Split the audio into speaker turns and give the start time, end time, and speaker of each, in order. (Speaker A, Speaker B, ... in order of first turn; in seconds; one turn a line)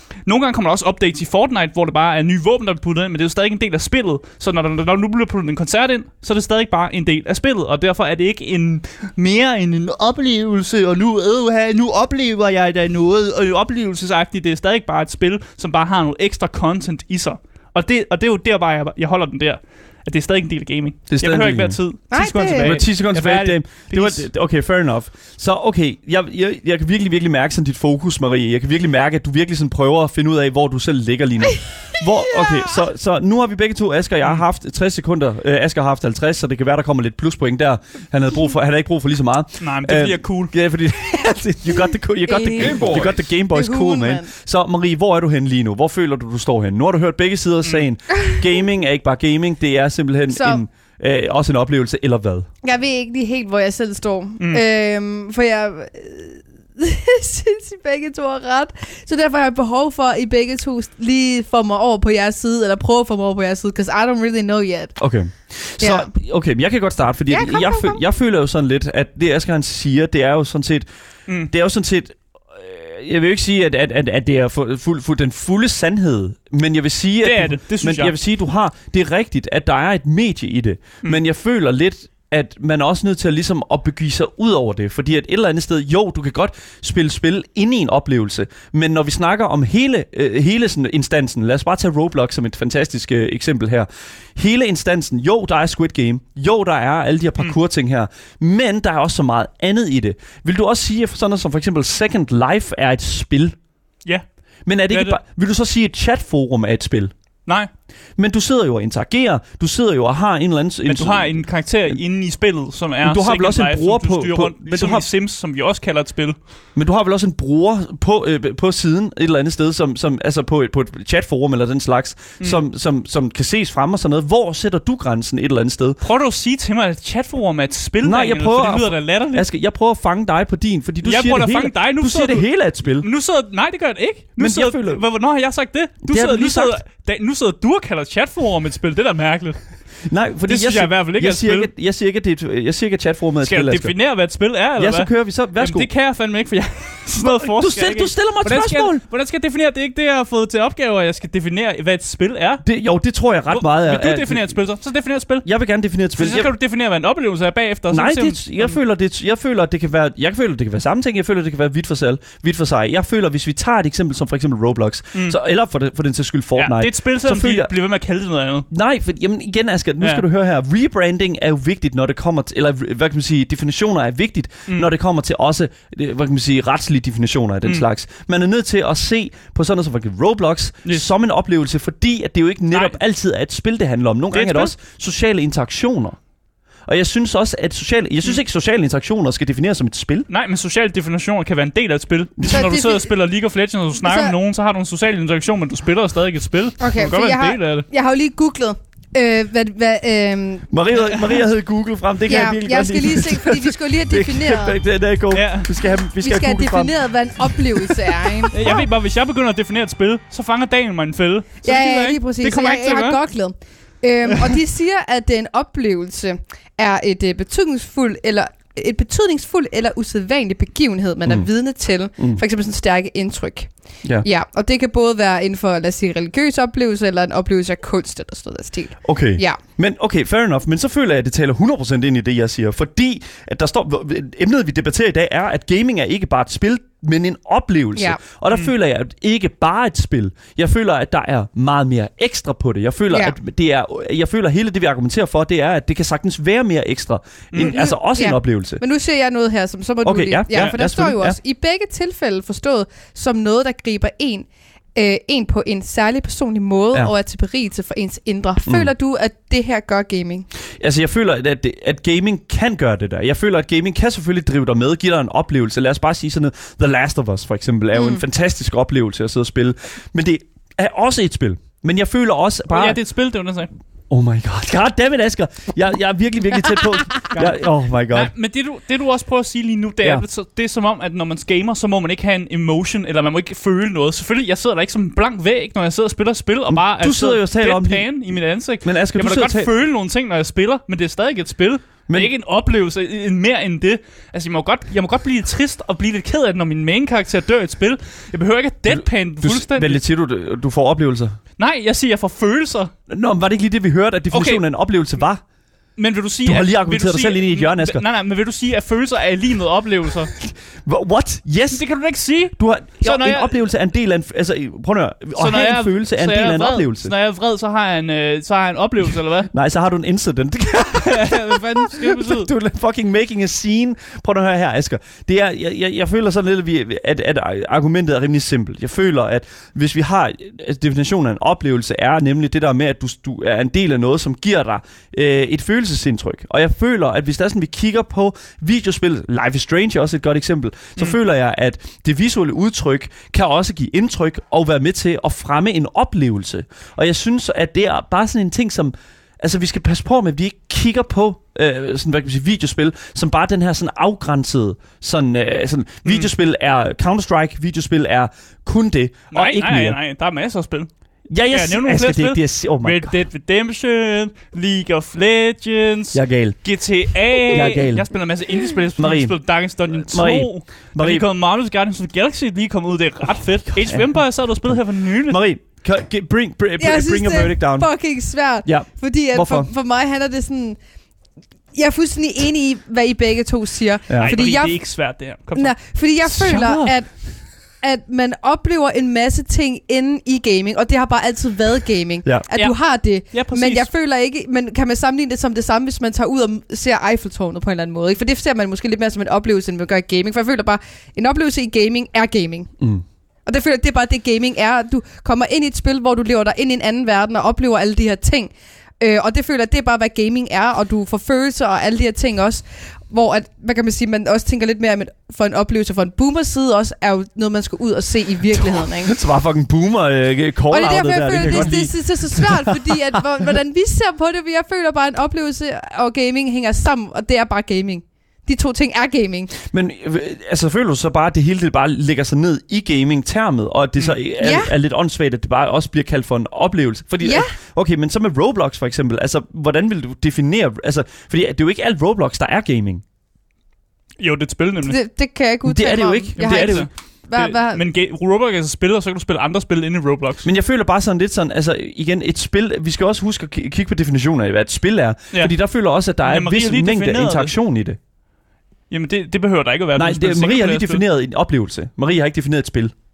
Speaker A: 0.2-24.2
Speaker B: 21.1-21.8
Speaker C: 22.1-22.8
Speaker B: 22.6-52.5
Speaker C: 32.3-32.8
Speaker A: 39.6-40.5
Speaker C: 42.3-44.3
Speaker C: 50.3-50.6
Speaker C: 52.6-64.9
Speaker B: 65.0-70.9
Speaker C: 65.8-66.1
Speaker C: 67.3-68.0
Speaker B: 71.5-103.5
Speaker A: 77.2-78.1
Speaker B: 104.7-107.1
Speaker A: 104.9-105.2
Speaker B: 108.2-112.0
Speaker A: 110.8-116.3
Speaker B: 113.0-115.0
Speaker B: 116.7-126.0
Speaker A: 126.0-129.4
Speaker B: 128.0-133.1
Speaker A: 131.0-132.5
Speaker A: 133.0-139.6
Speaker B: 134.4-135.0
Speaker B: 136.0-136.8
Speaker B: 140.1-143.9
Speaker A: 140.5-141.7
Speaker A: 143.4-152.6
Speaker B: 144.8-145.9
Speaker B: 147.2-149.0
Speaker B: 152.6-154.6
Speaker A: 153.5-155.4
Speaker B: 155.4-156.5
Speaker A: 156.2-158.8
Speaker B: 157.9-167.7
Speaker A: 166.6-168.7
Speaker B: 168.7-186.2
Speaker A: 184.3-184.7
Speaker B: 186.9-190.3
Speaker A: 190.3-197.8
Speaker B: 192.4-192.6
Speaker C: 192.5-193.1
Speaker C: 194.0-194.3
Speaker C: 196.8-200.7
Speaker B: 200.7-208.4
Speaker A: 201.1-201.4
Speaker C: 202.3-204.8
Speaker A: 205.3-205.7
Speaker C: 206.2-208.8
Speaker A: 208.5-213.2
Speaker C: 211.6-229.6
Speaker B: 229.0-248.8
Speaker C: 243.1-243.3
Speaker A: 247.5-247.8
Speaker C: 247.6-260.5
Speaker B: 250.0-251.4
Speaker B: 258.6-258.9
Speaker B: 260.8-273.0
Speaker C: 267.9-268.2
Speaker A: 272.7-273.7
Speaker B: 274.1-278.3
Speaker A: 277.3-300.0
Speaker B: 286.7-288.1
Speaker B: 288.8-289.7
Speaker B: 298.9-301.4
Speaker A: 301.6-302.9
Speaker B: 303.1-305.4
Speaker A: 304.3-304.6
Speaker A: 306.0-310.3
Speaker B: 306.4-308.0
Speaker B: 310.4-311.8
Speaker A: 311.7-313.6
Speaker B: 312.5-317.1
Speaker A: 315.4-319.5
Speaker B: 319.5-360.0
Speaker A: 320.8-322.5
Speaker A: 356.1-356.3
Speaker A: 359.3-360.9
Speaker B: 361.3-363.1
Speaker A: 361.5-375.4
Speaker B: 366.1-366.6
Speaker B: 367.5-368.1
Speaker B: 369.0-369.4
Speaker B: 369.9-371.2
Speaker B: 373.8-374.1
Speaker B: 375.3-377.9
Speaker C: 376.8-380.8
Speaker B: 378.6-379.7
Speaker C: 381.7-384.8
Speaker B: 384.1-384.3
Speaker A: 384.2-387.0
Speaker C: 385.5-402.7
Speaker A: 392.5-393.9
Speaker B: 402.8-403.0
Speaker C: 403.4-419.1
Speaker B: 418.5-422.9
Speaker C: 420.7-429.5
Speaker B: 429.6-443.0
Speaker C: 434.4-434.7
Speaker C: 437.2-437.5
Speaker A: 444.2-445.0
Speaker C: 444.8-447.8
Speaker B: 445.6-446.9
Speaker A: 446.4-450.5
Speaker B: 450.4-458.0
Speaker A: 456.2-457.5
Speaker A: 458.9-461.0
Speaker B: 459.9-462.9